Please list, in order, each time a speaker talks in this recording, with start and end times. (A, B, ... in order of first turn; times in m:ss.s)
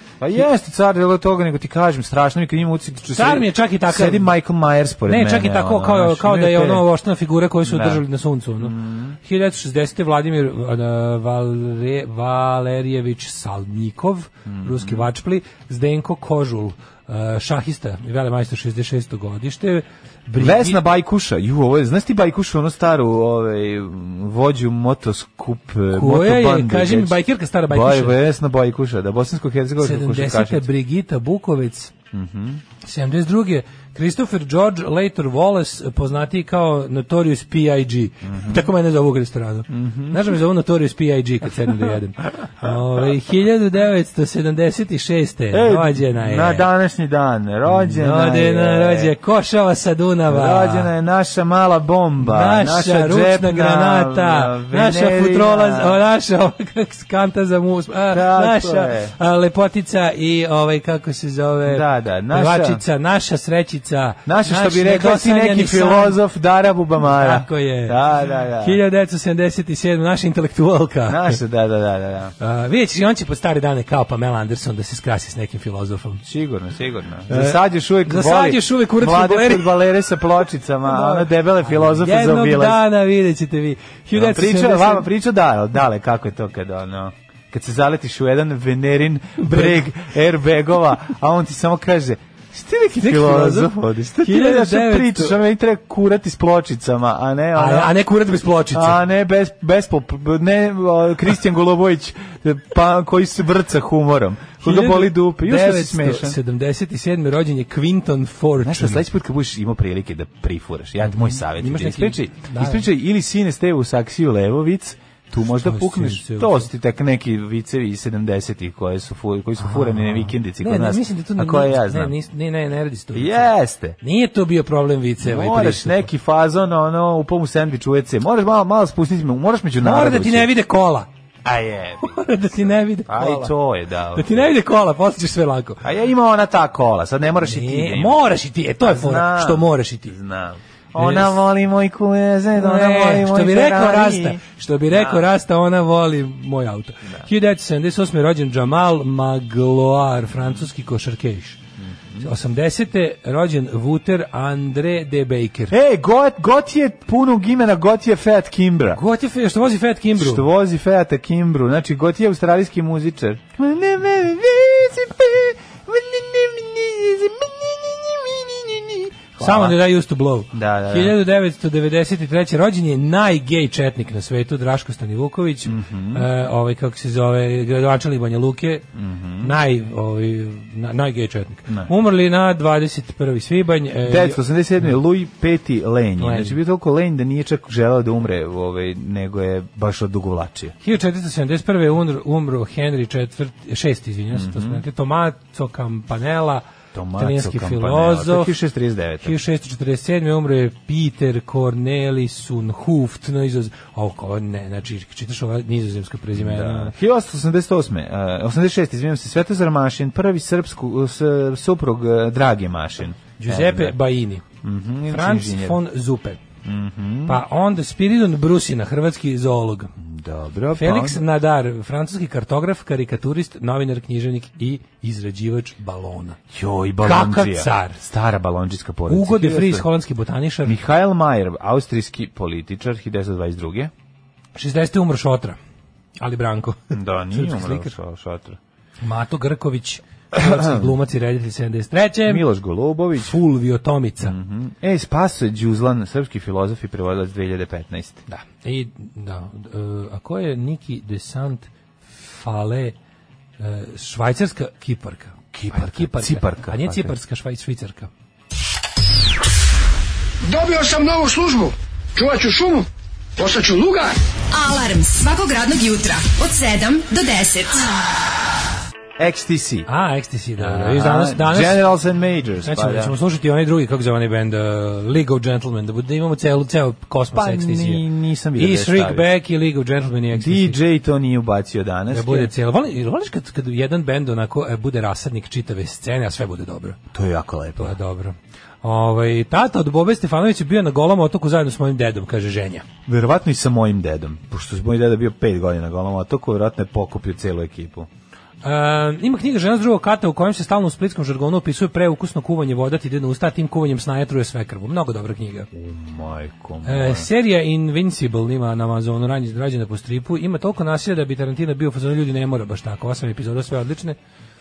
0:00.2-0:06.9 A
0:03.1-0:04.3 B
0:05.1-0:20.8 B
0:07.6-0:08.0 A
0:08.6-0:09.2 A
0:14.5-0:15.1 A
0:20.4-0:30.7 A
0:25.9-0:28.2 B
0:29.8-0:31.9 B
0:32.1-0:32.6 A
0:32.8-0:46.7 B
0:38.2-0:38.7 A
0:39.7-0:40.4 A
0:45.5-0:49.1 A
0:47.7-0:50.9 B
0:50.3-0:56.0 A
0:52.2-1:06.2 B
0:58.1-0:59.1 A
1:01.7-1:02.8 A
1:04.3-1:08.8 A
1:07.0-1:11.4 B
1:11.1-1:12.3 A
1:12.4-1:16.2 B
1:16.2-1:22.8 A
1:17.3-1:19.8 B
1:20.8-1:25.1 B
1:24.1-1:38.0 A
1:29.4-1:29.9 B
1:33.0-1:35.4 B
1:37.6-1:39.0 B
1:38.7-1:46.4 A
1:44.6-1:49.0 B
1:48.6-2:02.2 A
1:51.1-1:52.9 B
1:55.4-1:56.7 B
1:59.6-2:06.1 B
2:03.1-2:04.0 A
2:05.2-2:10.5 A
2:09.8-2:11.1 B
2:11.4-2:14.5 A
2:12.0-2:13.5 B
2:14.2-2:15.8 B
2:15.8-2:18.2 A
2:17.4-2:20.2 B
2:18.8-2:25.3 A
2:21.0-2:21.4 B
2:22.6-2:31.6 B
2:31.8-2:32.3 A
2:32.2-2:35.7 B
2:35.7-2:39.0 A
2:38.9-2:40.5 B
2:40.2-2:49.8 A
2:49.4-2:58.8 B
2:50.5-2:51.2 A
2:55.7-2:56.3 A
2:58.9-2:59.6 A
2:59.4-3:04.9 B
3:04.0-3:10.8 A
3:06.2-3:06.6 B
3:10.8-3:16.6 B
3:14.3-3:14.8 A
3:16.9-3:19.4 A
3:17.2-3:18.6 B
3:19.2-3:27.0 B
3:26.3-3:34.0 A
3:33.4-3:34.4 B
3:34.6-3:35.8 A
3:35.1-3:36.4 B
3:36.6-3:37.4 A
3:37.3-3:39.9 B
3:40.0-3:41.2 A
3:40.7-3:46.4 B
3:46.5-3:49.9 A
3:47.0-3:48.0 B
3:49.1-3:50.8 B
3:50.6-3:53.9 A
3:54.6-3:55.6 B
3:56.2-3:57.9 B
3:56.9-3:58.6 A
3:59.0-4:02.4 B
4:00.4-4:00.9 A
4:02.3-4:03.4 A
4:03.2-4:04.4 B
4:04.2-4:08.2 A
4:08.3-4:13.0 B
4:13.6-4:18.1 B
4:15.5-4:17.1 A
4:20.4-4:24.2 C
4:24.5-4:27.9 D
4:29.2-4:29.9 A
4:29.9-4:31.8 B
4:30.6-4:33.2 A
4:32.6-4:38.0 B
4:37.3-4:39.3 A
4:38.6-4:40.8 B
4:40.3-4:42.5 A
4:42.1-4:47.0 B
4:47.1-4:48.0 A
4:47.8-4:52.8 B
4:53.1-4:58.1 A
4:58.6-5:05.7 B
5:05.7-5:07.3 A
5:06.8-5:14.2 B